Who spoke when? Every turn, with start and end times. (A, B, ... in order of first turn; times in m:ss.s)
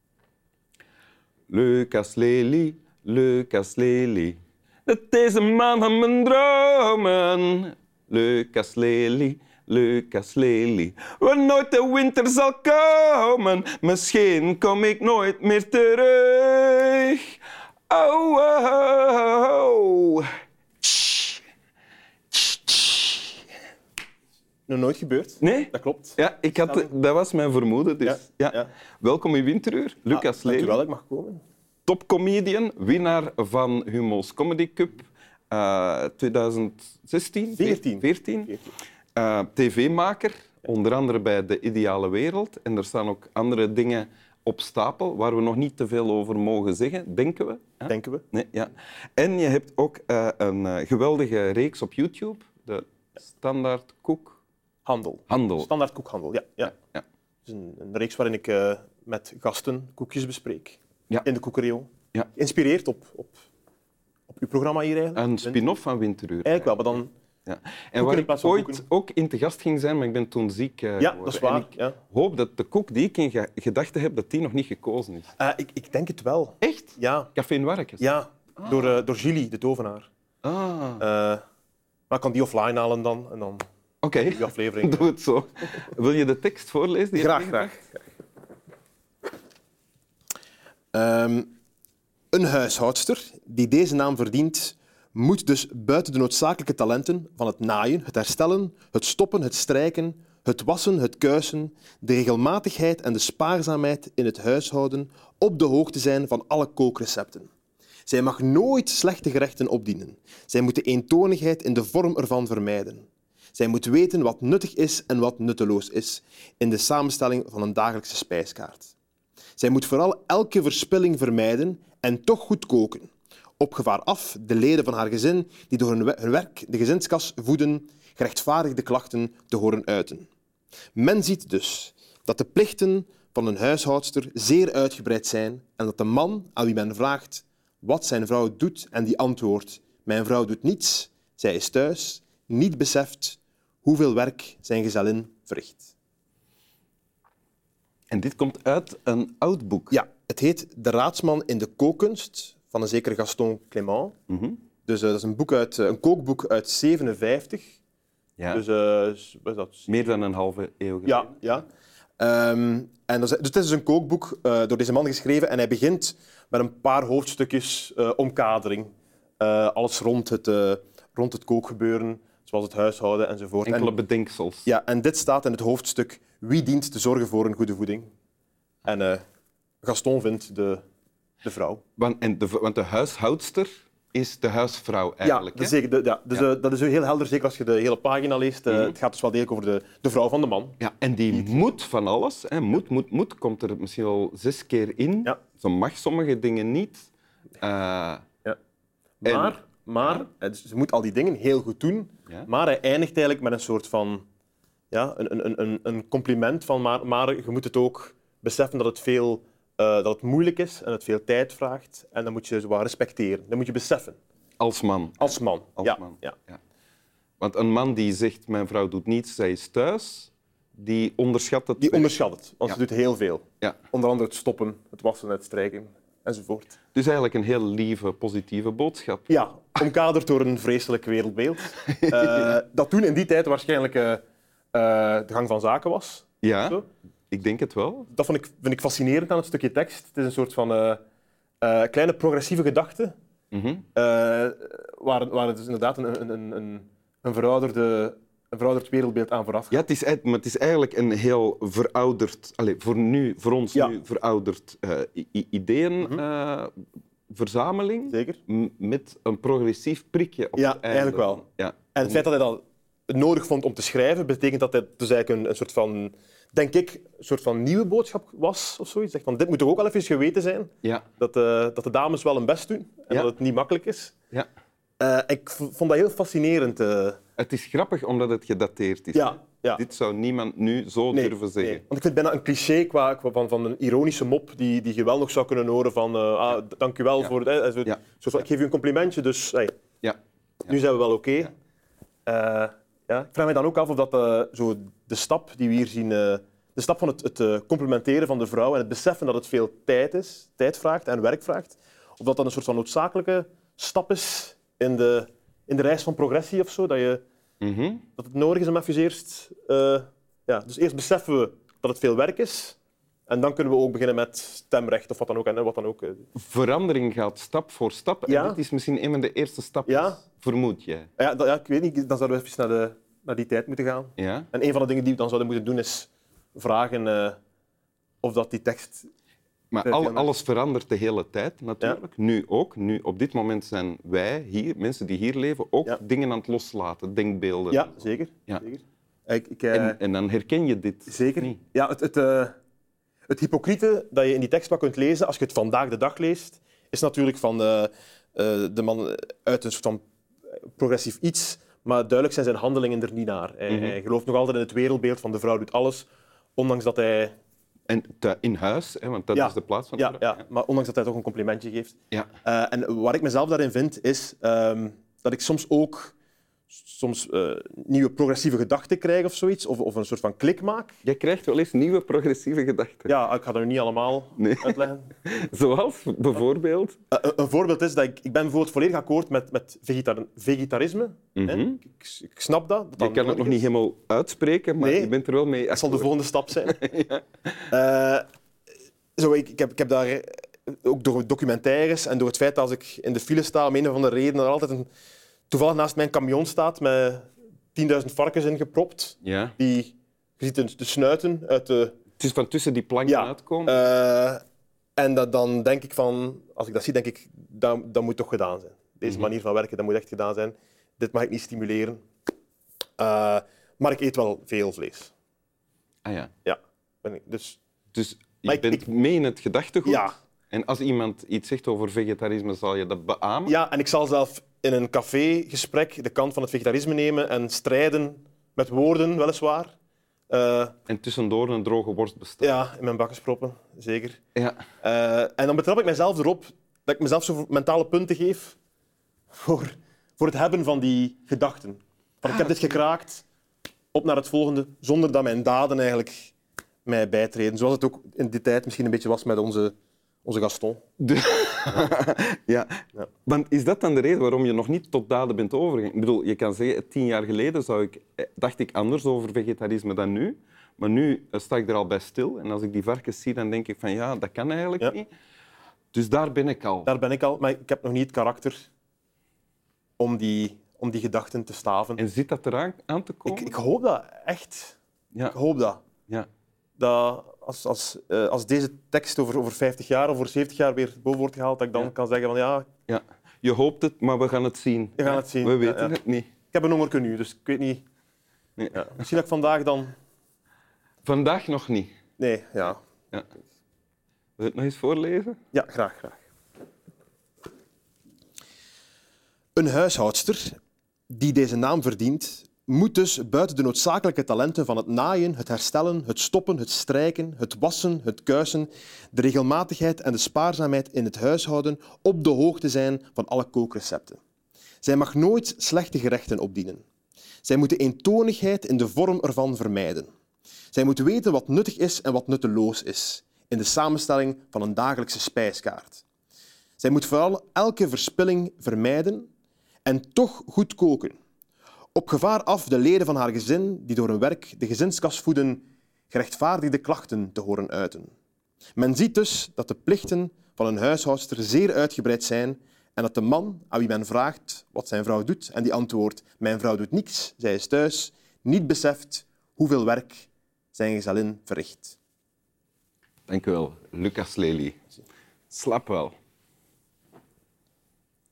0:01.5-0:17.3 A
0:17.9-0:20.3 A
0:20.8-0:21.4 A
0:22.3-0:23.4 A
0:24.7-0:26.9 B
0:25.4-0:30.8 A
0:28.0-0:28.7 B
0:30.1-0:31.4 B
0:31.8-0:38.6 A
0:37.5-0:38.6 B
0:39.1-0:54.4 A
0:47.9-0:48.2 B
0:54.8-0:56.7 B
0:55.3-0:55.7 A
0:57.4-1:03.4 B
1:04.3-1:05.6 B
1:05.2-1:06.9 A
1:06.4-1:07.1 B
1:07.4-1:15.3 A
1:08.0-1:08.8 B
1:11.0-1:12.0 B
1:15.4-1:17.3 B
1:16.6-1:18.0 A
1:18.0-1:20.1 B
1:18.6-1:18.8 A
1:20.4-1:21.0 A
1:21.0-1:21.4 B
1:22.1-1:23.6 B
1:24.0-1:27.8 A
1:24.3-1:25.1 B
1:27.1-1:28.0 B
1:30.9-1:31.5 B
1:32.3-1:47.5 B
1:48.1-1:58.9 B
1:59.6-2:10.3 B
2:10.9-2:25.9 B
2:28.1-2:29.9 A
2:29.9-2:34.1 B
2:34.3-2:34.6 A
2:34.8-2:37.8 B
2:38.5-2:39.9 B
2:39.9-2:41.3 A
2:41.0-2:41.6 B
2:42.2-2:54.0 B
2:53.6-2:54.6 A
2:54.6-2:58.1 B
2:58.8-2:59.2 B
2:59.8-3:00.8 B
3:01.4-3:01.8 B
3:02.0-3:05.7 A
3:05.2-3:10.8 B
3:08.7-3:08.9 A
3:10.8-3:17.1 A
3:17.6-3:18.2 A
3:19.2-3:24.2 B
3:19.2-3:20.2 A
3:24.9-3:34.2 B
3:34.6-3:36.6 A
3:35.2-3:36.4 B
3:37.4-3:42.1 A
3:41.8-3:46.8 B
3:46.9-3:49.3 A
3:49.3-3:54.2 B
3:51.8-3:52.5 A
3:54.7-3:56.8 B
3:56.4-3:58.1 A
3:58.1-4:01.0 B
4:01.6-4:03.1 B
4:03.5-4:03.8 A
4:03.9-4:09.8 B
4:09.7-4:16.7 A
4:17.3-4:22.2 A
4:18.1-4:18.4 B
4:20.6-4:21.4 B
4:21.9-4:34.1 B
4:35.0-4:37.2 B
4:37.4-4:41.8 A
4:39.1-4:39.8 B
4:41.1-4:49.7 B
4:50.0-4:50.7 A
4:50.7-4:51.5 B
4:52.2-5:07.2 B
5:07.6-5:08.0 A
5:08.2-5:12.8 B
5:13.3-5:16.3 B
5:16.4-5:21.1 A
5:18.3-5:18.6 B
5:19.8-5:20.2 B
5:21.2-5:27.4 B
5:24.2-5:24.5 A
5:28.2-5:29.1 B
5:29.7-5:38.6 A
5:29.8-5:30.3 B
5:37.7-5:40.0 B
5:39.7-5:41.6 A
5:41.1-5:42.5 B
5:43.3-5:50.0 B
5:50.7-5:57.3 B
5:53.7-5:54.0 A
5:57.9-6:00.4 A
5:59.3-6:06.1 B
6:06.7-6:11.0 B
6:11.0-6:13.1 A
6:13.0-6:15.1 B
6:14.4-6:17.0 A
6:17.1-6:23.6 B
6:21.4-6:21.8 A
6:23.0-6:26.1 A
6:24.8-6:25.1 B
6:25.7-6:26.8 B
6:26.6-6:27.2 A
6:27.7-6:28.2 B
6:29.2-6:34.9 B
6:35.5-6:42.0 B
6:39.2-6:39.5 A
6:42.2-6:43.8 A
6:43.0-6:44.4 B
6:45.0-6:52.0 B
6:53.0-6:55.1 B
6:56.0-6:56.3 A
6:56.4-6:57.6 B
6:57.9-7:03.5 A
6:58.4-6:58.8 B
6:59.8-7:00.1 B
7:03.4-7:09.7 B
7:10.3-7:10.7 B
7:10.9-7:12.5 A
7:12.4-7:14.2 B
7:14.3-7:14.6 A
7:14.8-7:18.6 B
7:19.3-7:23.2 B
7:23.9-7:26.3 B
7:26.8-7:30.8 B
7:31.0-7:45.1 A
7:45.9-7:46.9 A
7:46.8-7:48.6 B
7:50.0-7:52.0 B
7:52.0-7:53.5 A
7:53.3-7:54.8 B
7:55.3-7:55.8 B
7:56.8-8:02.7 B
8:02.9-8:06.3 A
8:05.0-8:06.0 B
8:06.5-8:07.8 B
8:08.6-8:08.9 A
8:08.7-8:09.9 B
8:11.0-8:11.9 A
8:12.2-8:12.8 B
8:14.4-8:15.4 A
8:15.5-8:16.2 B
8:19.5-8:20.6 B
8:21.1-8:34.2 B
8:34.8-8:36.8 B
8:37.4-8:40.1 B
8:40.7-8:46.0 B
8:46.8-8:49.3 B
8:49.8-8:51.2 B
8:51.9-8:58.1 B
8:58.8-9:12.0 B
9:13.3-9:14.8 A
9:15.5-9:16.2 A